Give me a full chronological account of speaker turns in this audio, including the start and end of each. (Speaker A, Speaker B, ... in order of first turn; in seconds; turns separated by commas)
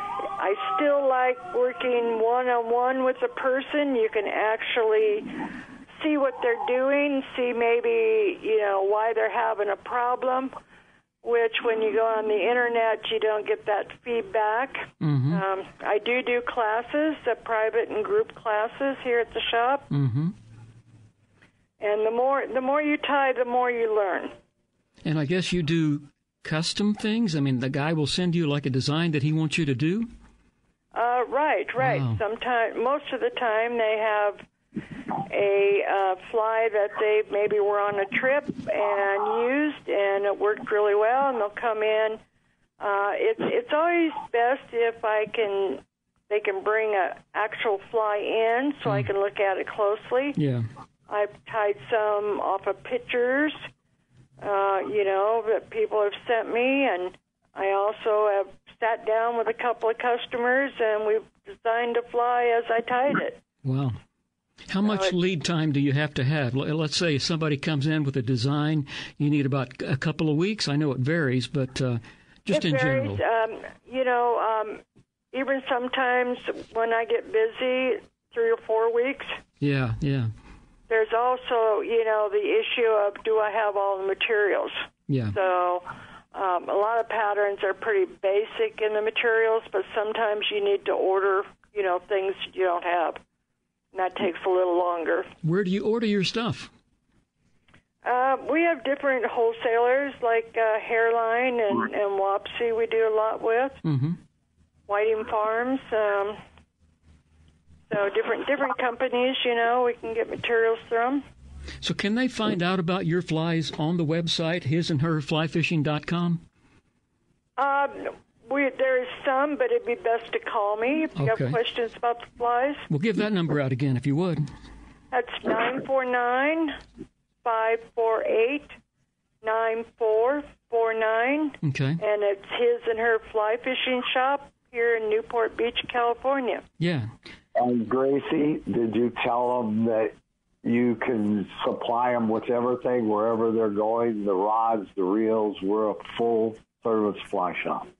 Speaker A: 0.4-5.3, Speaker A: 6.0-10.6, Speaker A: 11.2-19.9, Speaker B: 15.0-15.4, Speaker B: 19.9-20.3, Speaker A: 21.8-24.3, Speaker B: 25.0-30.1, Speaker A: 30.9-34.5, Speaker B: 31.8-32.2, Speaker A: 35.3-42.2, Speaker A: 42.8-50.4, Speaker B: 50.4-50.7, Speaker A: 51.1-53.7, Speaker A: 54.4-63.4, Speaker B: 63.6-64.0, Speaker B: 64.7-73.2, Speaker A: 64.9-65.1, Speaker A: 72.5-74.8, Speaker A: 75.3-79.4, Speaker B: 79.6-80.3, Speaker A: 80.9-93.2, Speaker B: 85.1-85.3, Speaker A: 93.9-95.3, Speaker B: 95.4-96.7, Speaker A: 98.0-103.8, Speaker B: 103.8-104.2, Speaker A: 104.9-106.4, Speaker A: 107.9-111.2, Speaker B: 111.8-116.4, Speaker A: 117.6-122.8, Speaker B: 121.2-121.6, Speaker B: 122.9-124.5, Speaker A: 125.1-126.8, Speaker A: 127.4-128.8, Speaker A: 129.4-136.6, Speaker B: 131.6-132.0, Speaker B: 136.8-137.1, Speaker C: 137.6-140.1, Speaker C: 140.6-147.9